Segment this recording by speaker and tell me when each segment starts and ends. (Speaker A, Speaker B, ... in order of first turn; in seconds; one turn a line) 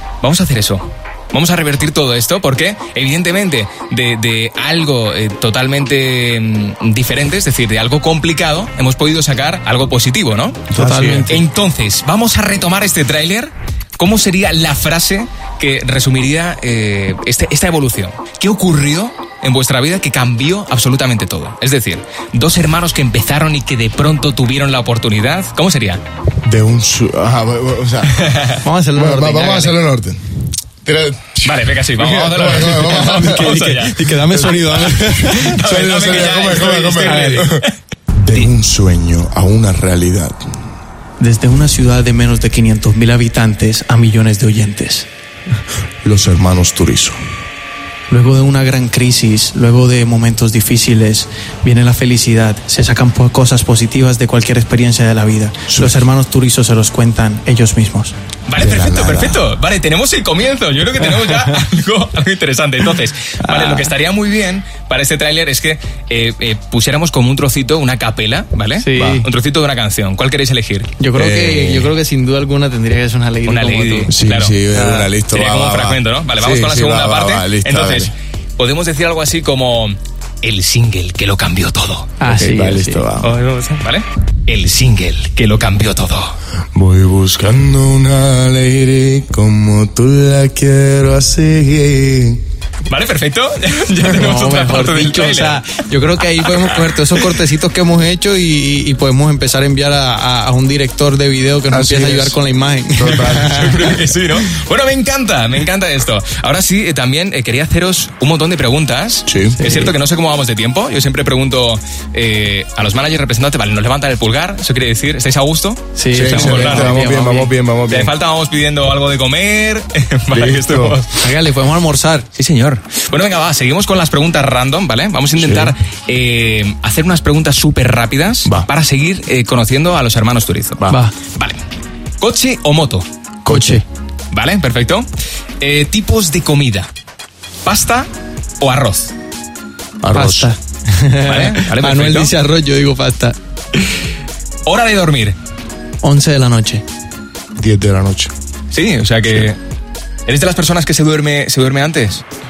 Speaker A: 0.2-10.6
Speaker B: 10.7-11.3
Speaker C: 10.7-11.4
Speaker A: 11.3-26.0
Speaker B: 26.4-28.4
Speaker A: 28.1-28.6
Speaker C: 28.6-29.8
Speaker B: 28.9-30.2
Speaker B: 30.8-33.5
Speaker A: 31.4-37.7
Speaker C: 32.6-35.6
Speaker B: 35.3-37.6
Speaker C: 36.9-37.5
Speaker B: 38.2-40.4
Speaker C: 41.2-45.1
Speaker B: 46.0-47.2
Speaker C: 48.1-58.1
Speaker B: 55.7-56.0
Speaker A: 58.5-70.9
Speaker B: 58.6-59.4
Speaker C: 61.1-61.5
Speaker C: 63.4-63.9
Speaker C: 68.8-69.3
Speaker B: 69.0-69.2
Speaker C: 71.0-74.1
Speaker B: 71.1-71.9
Speaker A: 73.5-82.1
Speaker B: 74.1-78.1
Speaker C: 82.2-83.0
Speaker B: 82.3-83.4
Speaker A: 83.2-86.3
Speaker B: 86.7-92.4
Speaker A: 92.9-95.6
Speaker C: 94.0-104.0
Speaker A: 96.4-97.3
Speaker B: 101.7-102.4
Speaker B: 103.0-103.9
Speaker A: 103.4-117.0
Speaker B: 109.3-109.6
Speaker C: 109.6-109.9
Speaker C: 116.0-117.5
Speaker B: 116.1-118.1
Speaker A: 117.9-121.2
Speaker B: 120.3-121.0
Speaker C: 121.2-122.3
Speaker A: 122.3-131.6
Speaker B: 125.4-125.7
Speaker A: 132.2-133.0
Speaker B: 133.4-133.8
Speaker C: 133.4-133.8
Speaker A: 134.3-135.1
Speaker A: 135.6-136.9
Speaker A: 137.6-138.1
Speaker A: 138.6-139.1
Speaker B: 140.0-140.5
Speaker C: 140.1-143.3
Speaker A: 141.2-142.3
Speaker A: 144.7-145.3
Speaker C: 146.0-146.8
Speaker B: 147.6-148.3
Speaker A: 148.7-149.6
Speaker A: 150.3-152.2